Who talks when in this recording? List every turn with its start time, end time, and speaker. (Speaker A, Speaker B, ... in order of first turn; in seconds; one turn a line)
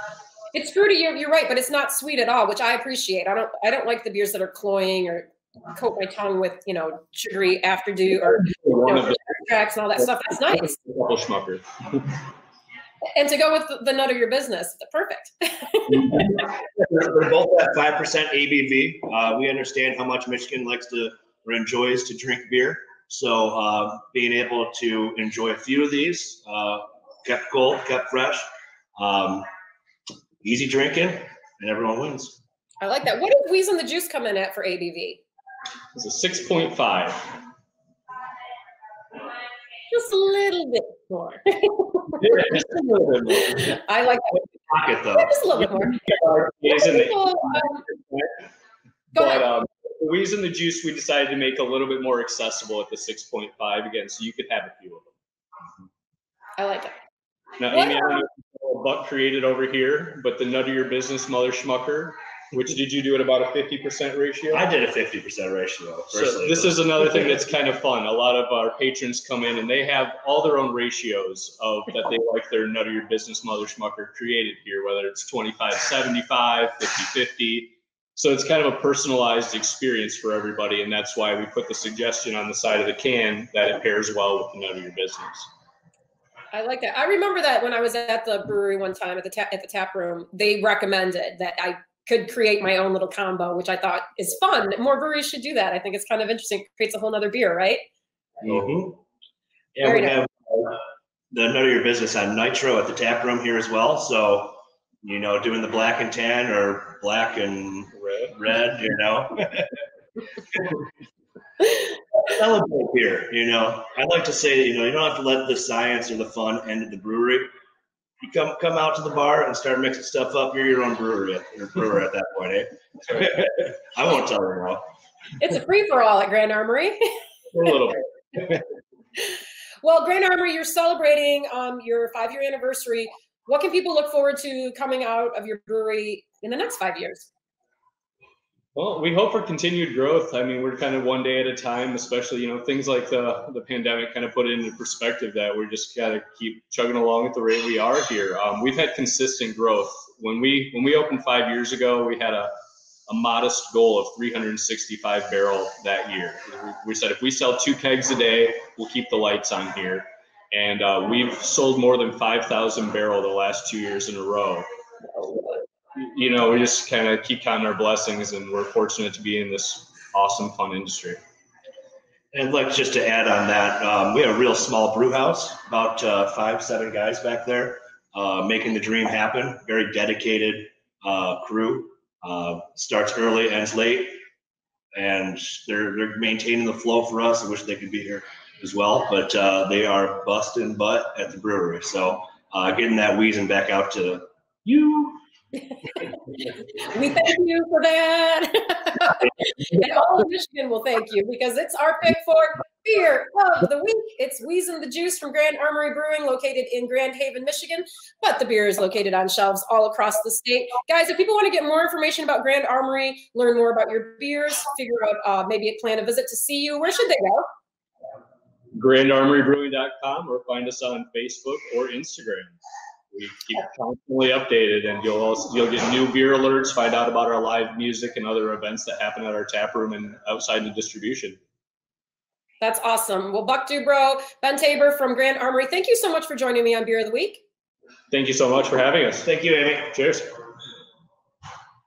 Speaker A: 0.5-10.8
Speaker B: 8.4-9.4
Speaker B: 10.5-12.2
Speaker A: 13.2-16.3
Speaker C: 16.1-28.5
Speaker C: 29.0-29.5
Speaker C: 30.4-32.4
Speaker A: 32.8-35.2
Speaker B: 36.0-37.4
Speaker A: 39.9-42.2
Speaker B: 42.2-43.8
Speaker A: 43.5-44.4
Speaker C: 44.7-45.4
Speaker A: 45.2-46.1
Speaker B: 45.6-48.4
Speaker A: 46.6-47.9
Speaker B: 49.1-55.1
Speaker A: 49.1-49.5
Speaker A: 56.6-56.9
Speaker B: 57.6-64.6
Speaker A: 57.7-58.2
Speaker C: 64.5-66.8
Speaker B: 66.1-85.5
Speaker A: 86.5-97.8
Speaker C: 98.5-99.0
Speaker C: 99.8-109.7
Speaker A: 99.8-100.2
Speaker B: 107.9-108.3
Speaker C: 112.2-117.5
Speaker C: 118.2-124.8
Speaker A: 125.4-127.0
Speaker B: 127.5-128.0
Speaker A: 129.2-137.3
Speaker B: 138.8-152.5
Speaker B: 153.1-164.7
Speaker A: 165.1-165.6
Speaker B: 166.0-171.2
Speaker C: 172.3-184.2
Speaker C: 185.0-195.2
Speaker A: 195.9-217.5
Speaker B: 218.7-222.6
Speaker B: 223.1-231.4
Speaker A: 232.6-237.4
Speaker B: 238.1-239.3
Speaker C: 239.2-239.9
Speaker B: 239.9-240.3